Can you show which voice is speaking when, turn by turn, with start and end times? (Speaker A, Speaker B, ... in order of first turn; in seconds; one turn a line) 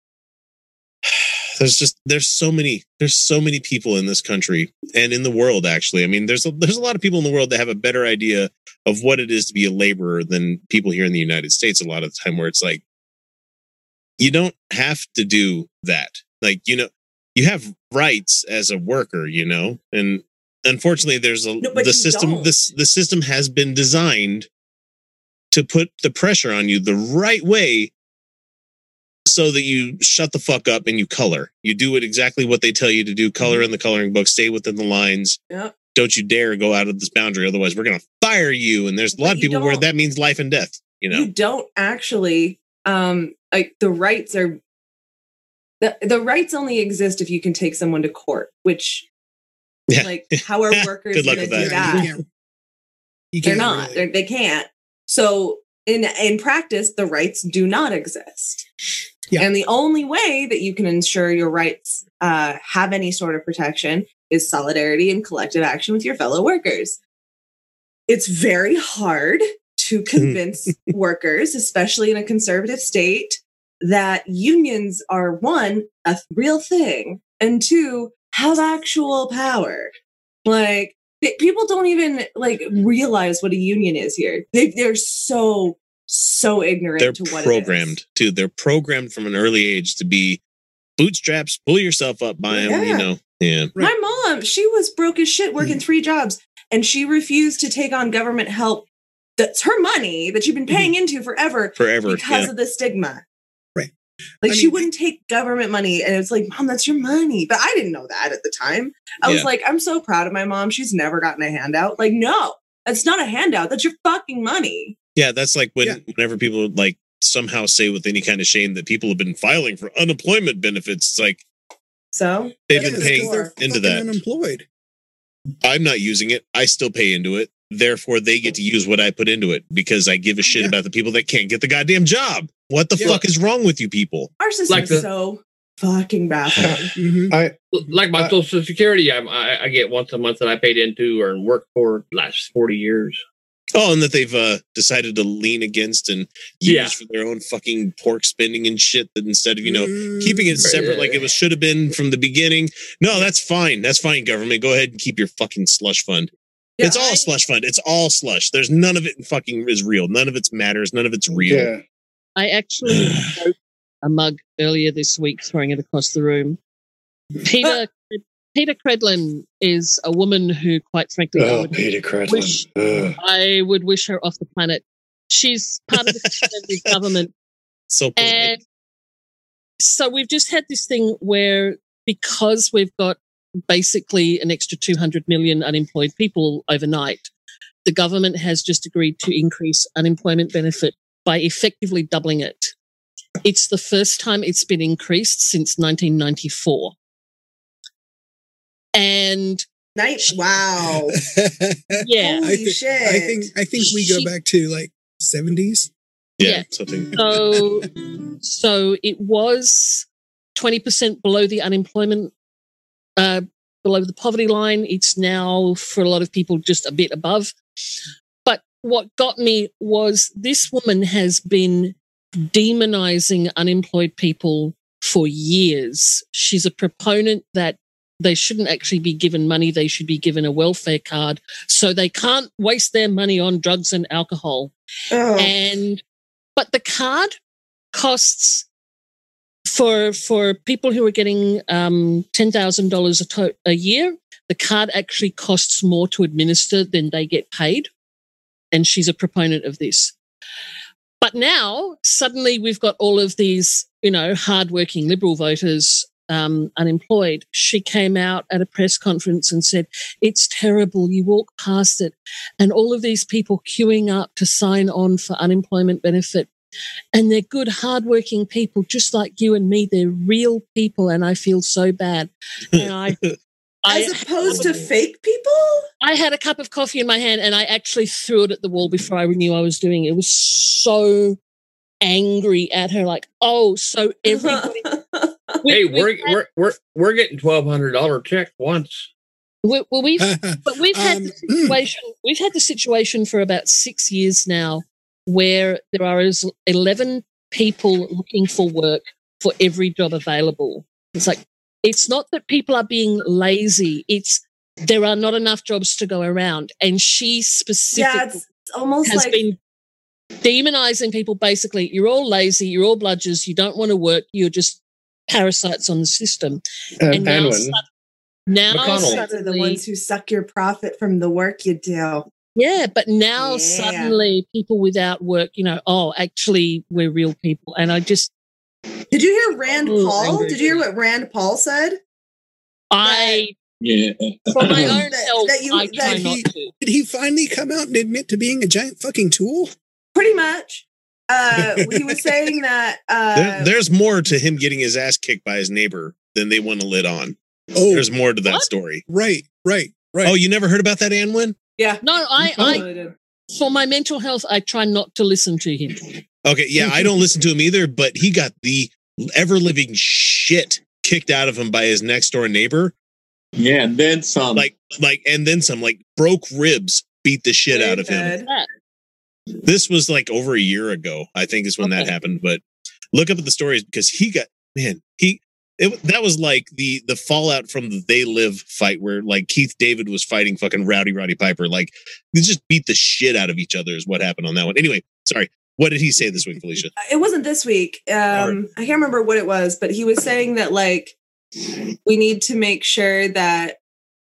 Speaker A: 1.1-12.8
Speaker A: 14.2-24.5
Speaker B: 21.6-22.5
Speaker A: 25.5-27.9
Speaker A: 29.3-35.4
Speaker B: 35.5-35.7
Speaker A: 35.9-41.3
Speaker B: 39.1-39.9
Speaker B: 41.1-44.6
Speaker B: 45.8-49.1
Speaker A: 49.9-52.1
Speaker B: 50.0-52.1
Speaker C: 51.4-52.2
Speaker C: 53.3-54.0
Speaker B: 53.4-58.6
Speaker B: 59.4-67.0
Speaker B: 68.1-88.0
Speaker A: 87.0-90.4
Speaker A: 91.0-93.7
Speaker B: 92.5-93.1
Speaker B: 93.8-98.8
Speaker B: 99.4-103.2
Speaker A: 101.8-102.5
Speaker C: 104.4-104.9
Speaker B: 104.4-114.9
Speaker A: 109.2-109.5
Speaker A: 115.2-121.4
Speaker B: 122.1-123.5
Speaker A: 122.7-124.2
Speaker C: 122.7-124.7
Speaker A: 125.6-134.3
Speaker C: 132.9-133.2
Speaker B: 134.4-136.9
Speaker D: 134.7-135.1
Speaker C: 136.9-137.3
Speaker E: 137.3-137.6
Speaker D: 137.7-143.2
Speaker A: 143.7-161.7
Speaker D: 146.6-146.9
Speaker C: 149.6-150.9
Speaker D: 150.6-151.2
Speaker B: 156.8-157.2
Speaker E: 161.5-161.8
Speaker F: 162.4-166.6
Speaker F: 167.4-177.3
Speaker E: 171.3-173.2
Speaker A: 177.9-178.5
Speaker F: 178.2-178.6
Speaker F: 179.8-183.2
Speaker F: 183.7-187.3
Speaker F: 187.8-192.7
Speaker F: 193.4-196.9
Speaker F: 198.9-199.6
Speaker B: 199.9-201.1
Speaker C: 201.0-205.9
Speaker F: 202.0-202.5
Speaker B: 202.2-203.5
Speaker F: 203.8-204.3
Speaker A: 206.4-207.1
Speaker F: 206.4-207.9
Speaker C: 207.2-207.7
Speaker F: 208.4-212.3
Speaker F: 213.2-217.5
Speaker F: 218.4-221.9
Speaker F: 222.5-234.7
Speaker B: 235.1-235.6
Speaker F: 235.3-236.0
Speaker F: 236.6-237.3
Speaker F: 237.9-238.7
Speaker F: 239.7-247.9
Speaker F: 248.7-250.1
Speaker F: 251.2-266.5
Speaker F: 267.1-273.2
Speaker A: 272.7-273.4
Speaker F: 273.8-274.7
Speaker B: 273.9-275.8
Speaker A: 274.4-274.9
Speaker F: 276.0-281.4
Speaker F: 282.0-284.9
Speaker B: 284.3-285.6
Speaker F: 285.6-286.4
Speaker D: 285.7-289.1
Speaker F: 289.6-308.4
Speaker C: 290.2-291.8
Speaker B: 307.9-309.4
Speaker F: 309.0-309.6
Speaker F: 310.4-317.8
Speaker E: 317.0-317.8
Speaker F: 318.5-319.8
Speaker D: 318.7-319.2
Speaker B: 318.7-322.3
Speaker F: 322.6-328.3
Speaker B: 323.4-324.2
Speaker B: 329.1-332.0
Speaker F: 329.9-330.5
Speaker F: 332.9-333.5
Speaker B: 333.0-333.4
Speaker G: 333.8-334.9
Speaker F: 334.6-336.7
Speaker B: 334.7-336.3
Speaker C: 334.7-335.0
Speaker C: 336.0-339.7
Speaker B: 340.1-343.7
Speaker C: 341.5-342.4
Speaker A: 343.3-347.4
Speaker C: 347.7-348.1
Speaker A: 347.9-349.0
Speaker C: 349.1-350.4
Speaker A: 350.2-351.6
Speaker B: 351.8-353.1
Speaker F: 352.0-352.8
Speaker F: 353.5-356.1
Speaker A: 356.4-362.9
Speaker C: 356.8-357.1
Speaker G: 363.6-364.7
Speaker A: 364.5-368.3
Speaker B: 367.7-368.5
Speaker F: 368.4-368.7
Speaker A: 369.6-372.6
Speaker F: 371.8-372.1
Speaker A: 373.1-386.9
Speaker B: 387.0-391.1
Speaker A: 388.3-388.6
Speaker B: 392.0-393.8